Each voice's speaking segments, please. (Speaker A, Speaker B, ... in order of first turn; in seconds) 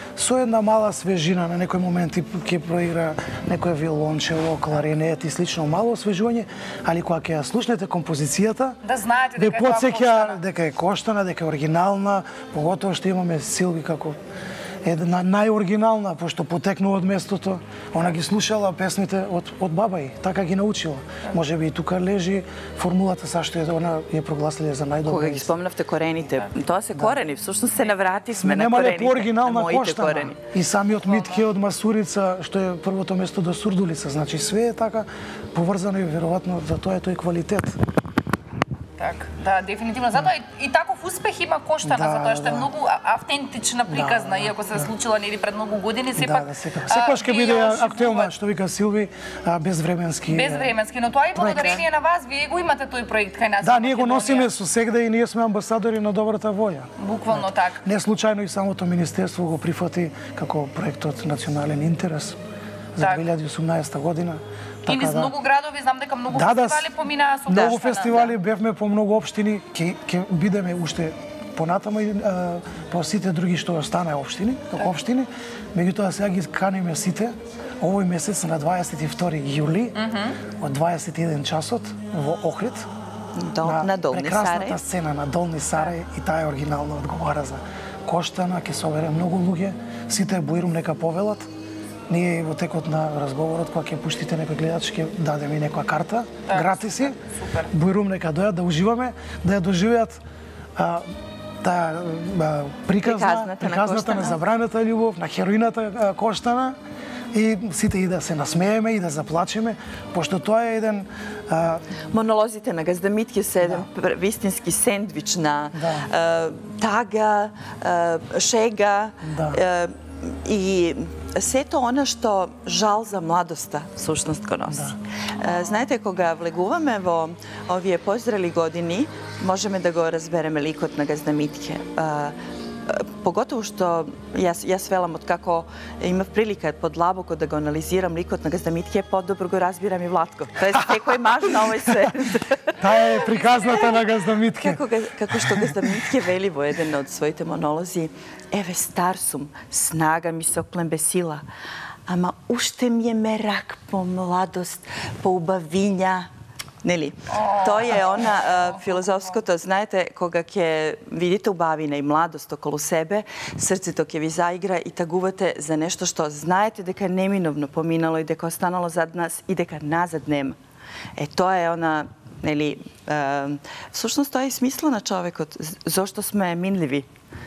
Speaker A: 0.2-8.8, 9.4-14.2, 14.8-25.5, 28.3-37.8, 41.8-42.7, 43.9-44.9, 46.2-50.8, 51.4-51.8, 53.6-62.4, 63.0-65.3, 66.3-66.9, 67.5-80.0, 80.6-82.9, 83.6-91.5, 92.1-97.2, 97.7-100.2, 100.8-106.8, 107.3-111.8, 115.8-116.1, 119.2-119.6, 124.7-125.0, 140.8-141.1, 142.8-146.1
Speaker B: 8.8-10.4, 31.1-31.4, 39.0-48.3, 50.3-54.5, 57.0-57.8, 63.0-63.2, 64.9-68.3, 80.0-80.4, 96.5-97.7, 125.5-125.8, 143.6-143.9, 157.3-159.4
Speaker C: 25.1-30.4, 83.4-84.8, 103.0-104.4, 112.1-143.9, 144.6-151.4, 152.1-156.3, 156.8-170.6, 171.2-177.1